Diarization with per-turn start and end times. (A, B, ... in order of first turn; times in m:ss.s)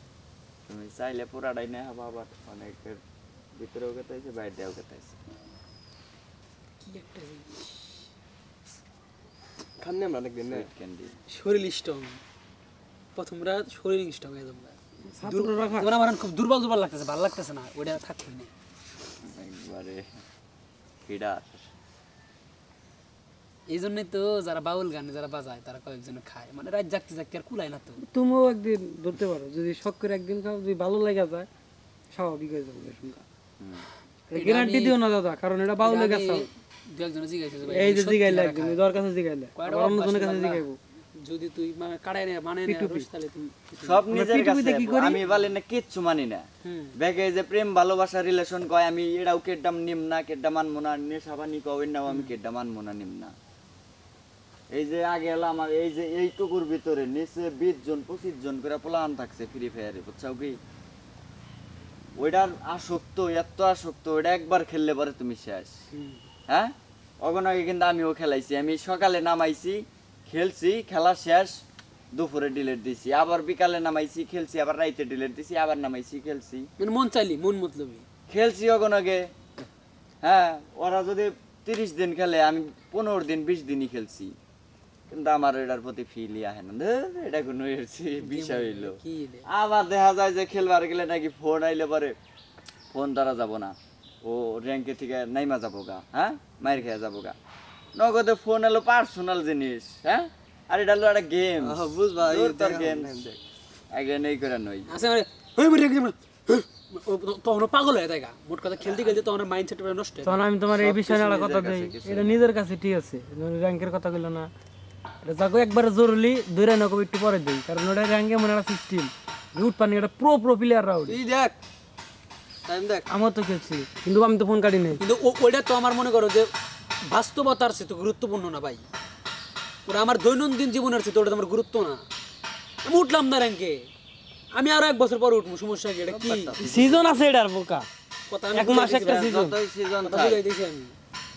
0:00.7-0:03.0 A
0:03.6-0:05.2 A
0:06.8-0:08.0 B
0:09.8-0:10.7 C
0:10.5-0:11.2 A
0:11.3-0:12.2 B
0:13.2-0:18.5 B
0:15.1-0:15.9 D
0:19.2-0:20.2 A
0:21.0-0:21.6 A
0:23.7-0:28.0 B
0:28.0-0:31.5 D
0:32.1-0:33.2 D
0:33.6-0:33.9 A
0:34.3-0:36.5 D
0:34.3-0:35.0 B
0:35.8-0:38.8 B
0:37.7-0:40.8 D
0:39.6-0:40.6 B
0:41.2-0:44.0 B
0:42.7-0:43.1 D
0:43.8-0:46.4 A
0:44.1-0:45.2 D
0:46.6-0:47.0 B
0:47.0-0:53.3 A
0:54.7-1:00.6 A
1:02.2-1:05.7 A
1:05.9-1:06.2 B
1:06.5-1:11.6 A
1:12.1-1:16.6 A
1:16.8-1:18.1 B
1:18.3-1:19.3 A
1:20.2-1:24.4 A
1:25.1-1:32.2 A
1:28.2-1:29.5 B
1:32.9-1:37.4 A
1:38.0-1:43.2 A
1:41.6-1:43.4 C
1:43.9-1:44.9 A
1:44.9-1:50.4 B
1:50.2-1:54.5 D
1:50.8-1:52.4 A
1:55.2-2:01.2 D
2:01.1-2:01.6 C
2:02.7-2:03.1 C
2:03.1-2:05.0 D
2:05.0-2:06.5 B
2:07.0-2:08.8 B
2:09.9-2:12.0 B
2:12.8-2:13.9 B
2:14.5-2:16.6 B
2:16.1-2:17.0 C
2:16.6-2:17.9 D
2:16.7-2:17.0 A
2:18.3-2:19.2 B
2:18.6-2:19.6 D
2:18.7-2:20.4 A
2:20.0-2:21.0 B